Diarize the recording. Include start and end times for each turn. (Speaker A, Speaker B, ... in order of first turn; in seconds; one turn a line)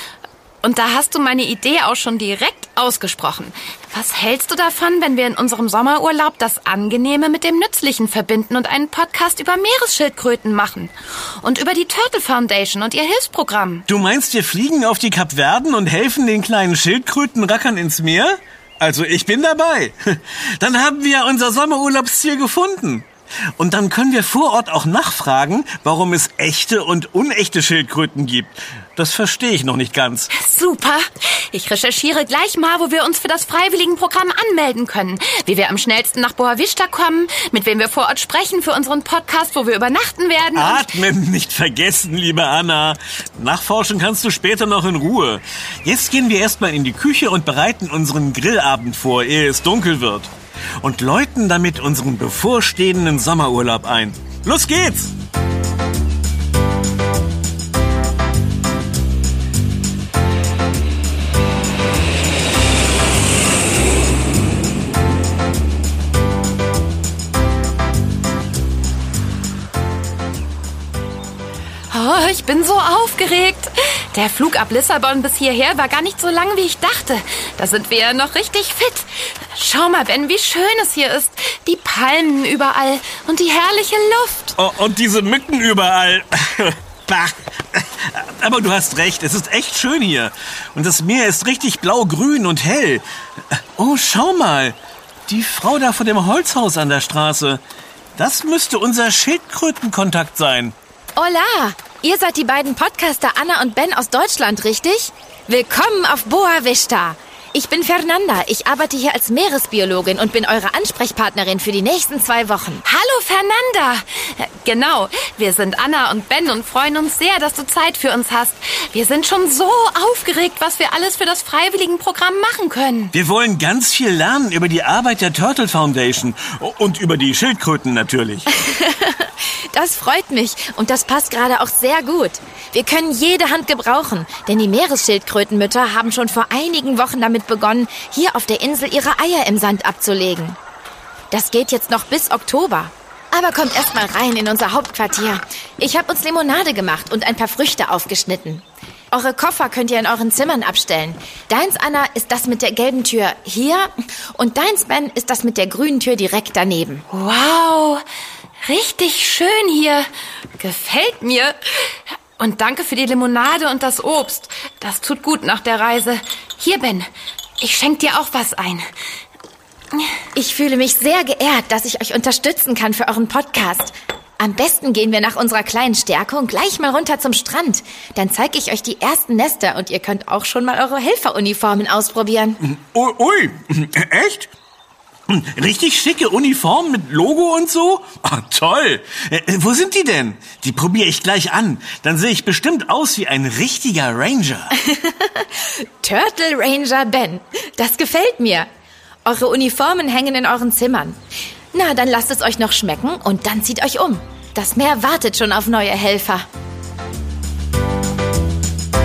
Speaker A: 0.6-13.9
Speaker B: 13.9-30.3
Speaker A: 30.3-41.0
Speaker B: 40.5-55.1
Speaker A: 71.9-84.6
Speaker B: 84.6-97.6
Speaker B: 98.2-100.8
Speaker C: 101.2-112.8
Speaker A: 112.8-123.1
Speaker B: 123.1-128.5
Speaker C: 128.6-140.6
Speaker C: 141.3-157.0
Speaker A: 157.1-158.0
Speaker A: 158.6-160.1
Speaker A: 160.6-167.1
Speaker A: 167.6-168.9
Speaker C: 170.3-182.6
Speaker B: 182.6-184.5
Speaker B: 185.3-194.7
Speaker C: 194.7-198.7
Speaker C: 199.2-201.2
Speaker C: 201.7-206.5